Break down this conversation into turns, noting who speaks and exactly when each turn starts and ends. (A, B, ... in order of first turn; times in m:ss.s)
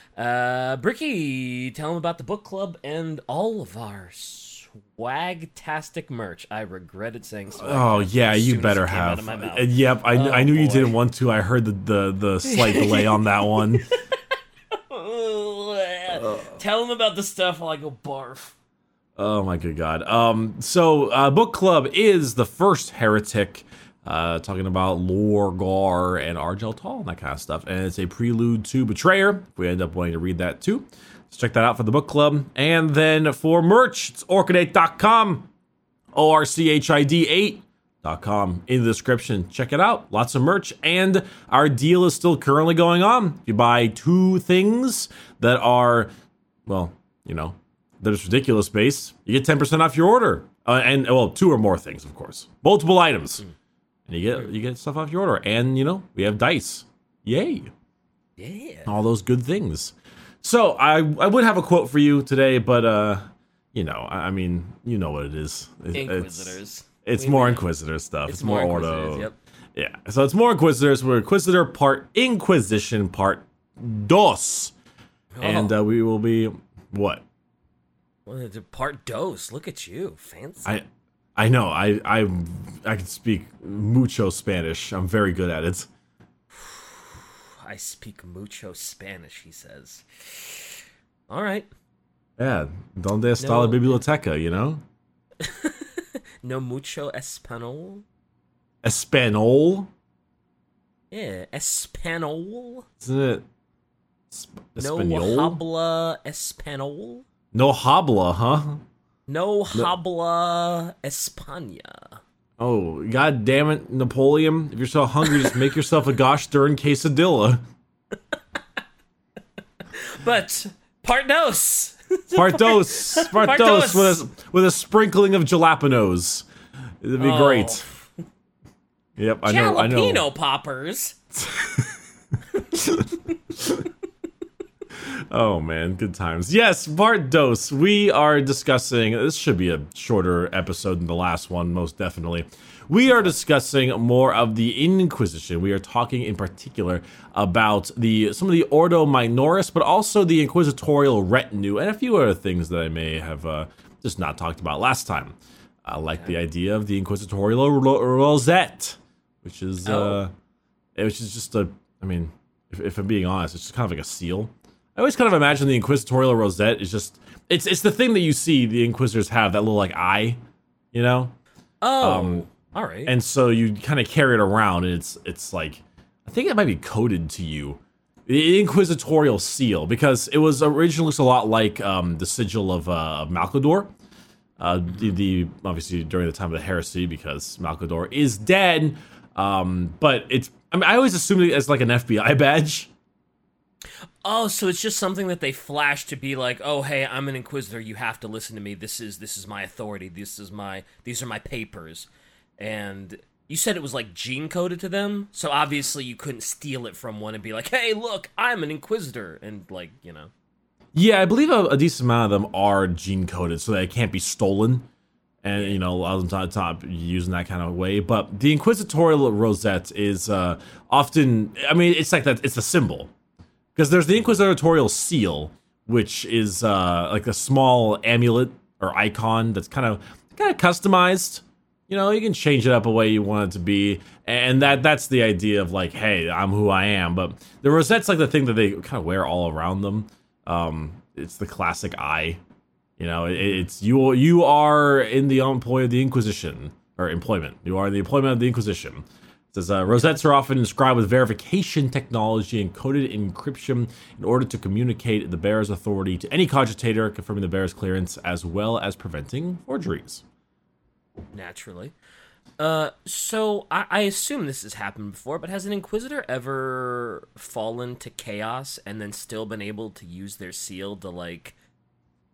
0:00.2-0:11.0 A
0:07.6-0:13.9 B
0:12.5-0:14.2 A
0:14.7-0:18.6 A
0:16.1-0:16.6 B
0:19.2-0:35.5 B
0:36.1-0:46.1 B
0:46.7-0:53.4 B
0:54.1-0:57.7 B
0:58.4-0:58.9 A
0:58.9-1:14.7 B
1:05.9-1:07.7 A
1:08.2-1:09.4 A
1:15.3-1:15.8 A
1:15.4-1:17.2 B
1:18.3-1:20.7 A
1:21.4-1:25.9 B
1:26.5-1:31.7 A
1:32.4-1:34.8 B
1:33.4-1:34.0 A
1:35.4-1:38.0 A
1:38.8-1:39.9 B
1:41.1-1:42.9 A
1:43.0-1:43.4 B
1:44.3-1:45.6 B
1:44.8-1:47.3 A
1:47.5-1:48.8 B
1:49.3-1:52.2 A
1:52.6-1:57.6 B
1:55.2-1:55.6 A
1:59.9-2:04.2 A
2:02.4-2:06.5 B
2:07.0-2:07.8 B
2:07.2-2:08.1 A
2:09.2-2:10.3 B
2:09.4-2:11.2 A
2:11.4-2:11.9 B
2:12.7-2:13.8 B
2:15.0-2:40.3 B
2:39.8-2:40.2 A
2:41.0-2:50.4 B
2:50.9-2:51.3 B
2:51.8-2:53.1 A
2:52.0-2:52.5 B
2:53.1-3:03.9 B
3:04.6-3:12.9 B
3:14.2-3:30.3 A
3:30.9-3:34.9 B
3:35.4-3:43.1 B
3:35.5-3:35.8 A
3:43.8-4:02.4 B
4:03.0-4:20.2 B
4:21.3-4:21.9 A
4:22.6-4:31.6 A